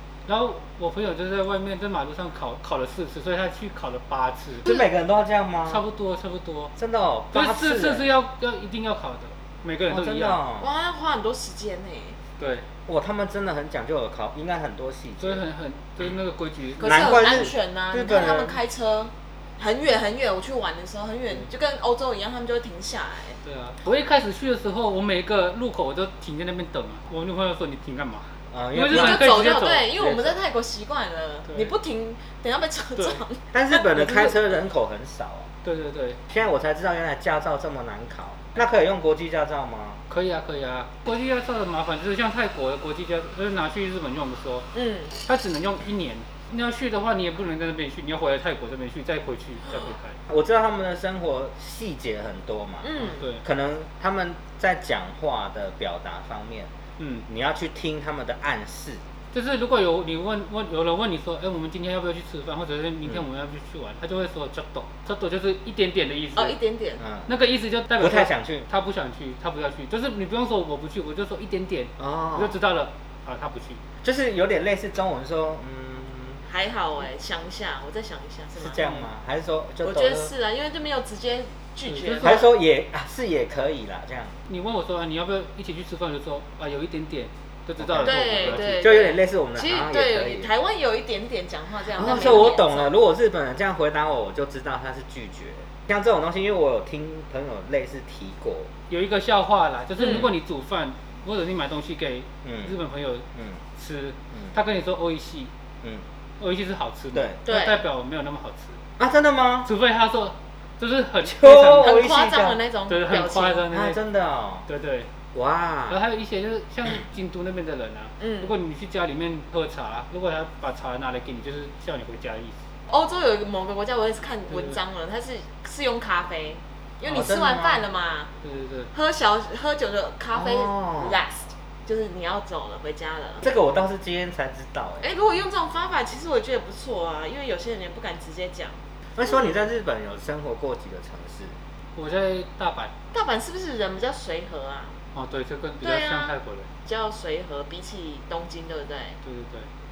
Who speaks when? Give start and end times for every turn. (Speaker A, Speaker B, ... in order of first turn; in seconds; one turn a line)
Speaker A: 0.3-4.8
Speaker B: 4.7-5.8
Speaker A: 5.7-6.7
Speaker B: 6.8-8.1
Speaker A: 7.3-10.4
Speaker B: 9.9-10.7
Speaker C: 10.6-12.2
Speaker A: 12.4-12.7
Speaker B: 12.9-15.4
Speaker A: 15.2-17.4
Speaker C: 16.8-23.4
Speaker B: 16.8-18.6
Speaker A: 23.4-30.0
Speaker B: 28.5-29.4
Speaker C: 28.9-34.3
Speaker B: 30.0-30.4
Speaker A: 31.5-31.8
Speaker A: 33.0-33.2
Speaker B: 33.5-35.5
Speaker A: 33.9-34.3
Speaker A: 35.6-36.2
Speaker B: 36.3-40.0
Speaker A: 40.1-50.2
Speaker C: 44.7-45.1
Speaker B: 50.3-56.7
Speaker C: 52.8-53.2
Speaker A: 53.1-53.5
Speaker A: 57.0-57.3
Speaker B: 57.3-59.0
Speaker A: 59.3-66.6
Speaker C: 66.3-67.0
Speaker B: 67.0-67.3
Speaker A: 67.3-73.8
Speaker B: 68.0-68.7
Speaker B: 72.0-72.6
Speaker B: 74.0-76.4
Speaker C: 76.5-78.8
Speaker B: 78.6-80.3
Speaker C: 79.8-82.5
Speaker A: 81.8-82.5
Speaker B: 82.2-84.4
Speaker A: 84.5-88.9
Speaker B: 87.8-90.5
Speaker C: 88.0-92.9
Speaker B: 91.9-98.7
Speaker A: 92.0-92.6
Speaker A: 98.9-105.5
Speaker C: 100.0-100.3
Speaker B: 102.4-102.7
Speaker B: 103.3-103.6
Speaker A: 106.4-108.8
Speaker B: 107.1-107.4
Speaker C: 107.5-107.8
Speaker B: 109.0-109.7
Speaker A: 109.6-112.0
Speaker B: 111.2-112.6
Speaker C: 111.7-113.6
Speaker A: 112.9-114.0
Speaker B: 113.7-114.7
Speaker A: 114.7-115.1
Speaker B: 115.3-116.0
Speaker A: 115.9-122.6
Speaker C: 118.2-118.5
Speaker C: 122.9-128.3
Speaker A: 124.5-124.8
Speaker B: 127.0-127.9
Speaker A: 128.4-128.9
Speaker C: 128.9-133.5
Speaker B: 130.3-131.2
Speaker B: 133.4-135.1
Speaker C: 135.0-139.6
Speaker B: 139.2-141.6
Speaker A: 141.9-142.9
Speaker C: 143.1-145.0
Speaker A: 145.1-146.7
Speaker C: 145.8-149.2
Speaker A: 149.2-149.7